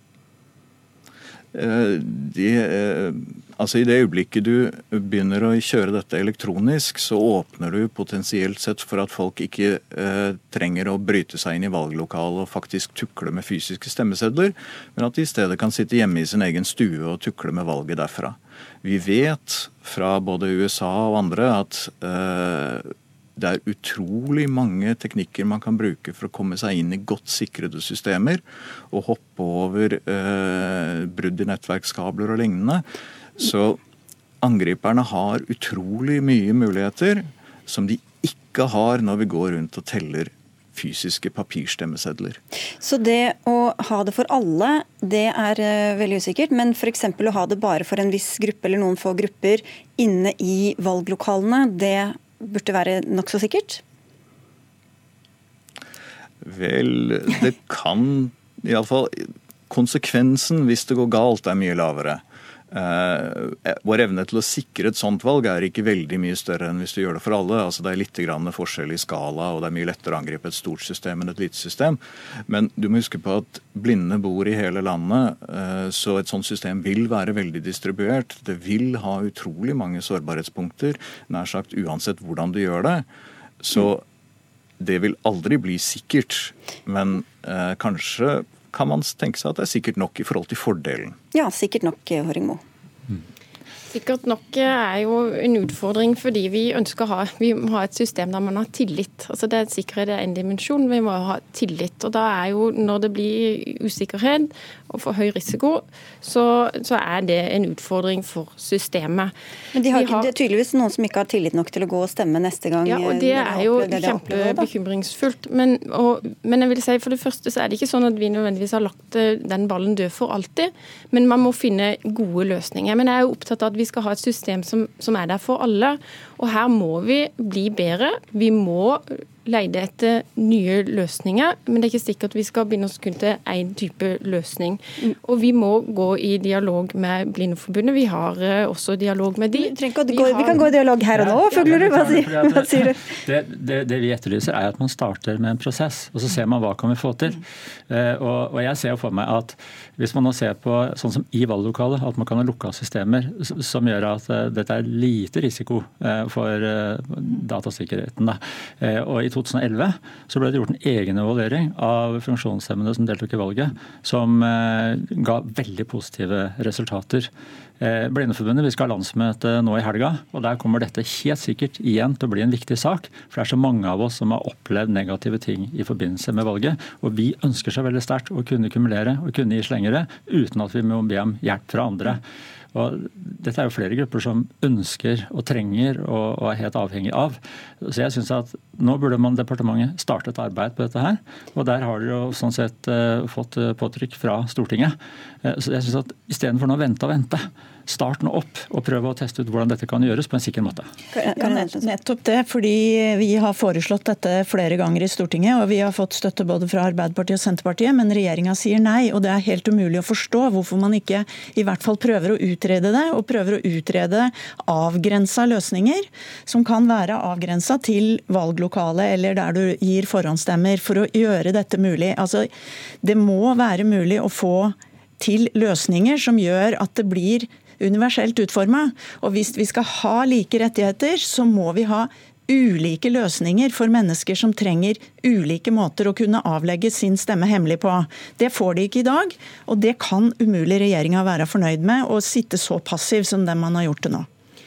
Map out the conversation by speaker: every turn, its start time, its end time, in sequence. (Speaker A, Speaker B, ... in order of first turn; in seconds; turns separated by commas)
Speaker A: 1.5-32.8, Speaker A: 33.4-33.8, Speaker A: 34.4-42.4, Speaker B: 42.8-53.8, Speaker A: 56.4-83.0, Speaker A: 83.6-84.0, Speaker A: 84.8-91.2, Speaker B: 91.3-92.6, Speaker C: 93.9-109.3, Speaker B: 109.7-114.7, Speaker C: 109.9-110.3, Speaker C: 112.8-140.9, Speaker B: 139.5-143.1, Speaker D: 141.1-182.2, Speaker D: 182.7-200.9, Speaker B: 201.1-201.9, Speaker E: 201.3-222.5, Speaker E: 223.0-244.3